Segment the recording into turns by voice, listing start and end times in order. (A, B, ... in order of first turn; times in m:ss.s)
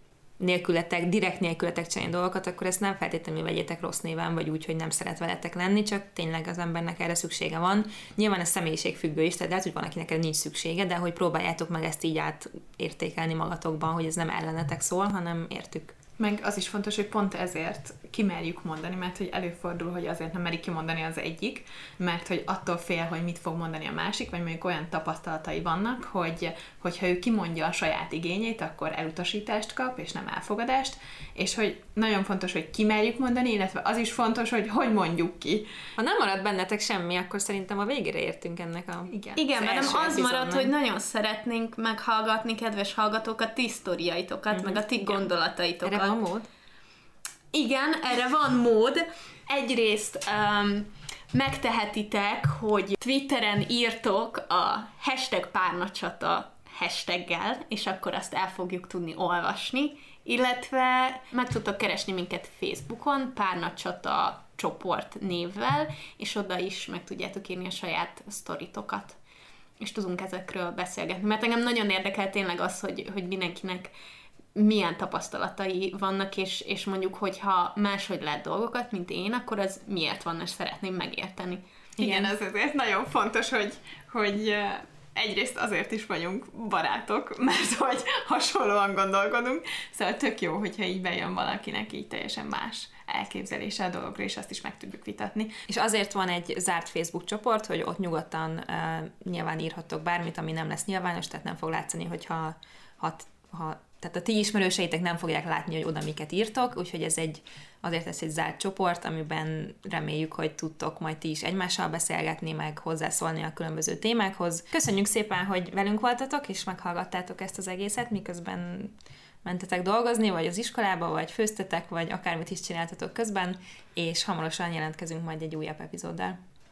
0:00.4-0:16.0 A
0:16.2-0:35.6 B
0:36.0-0:40.7 A
0:39.1-0:39.4 B
0:39.4-0:46.2 C
0:44.5-0:45.2 A
0:45.8-0:46.5 A
0:47.5-1:09.2 C
1:09.8-1:13.9 C
1:14.5-1:22.2 C
1:22.0-1:35.6 B
1:35.7-2:06.4 A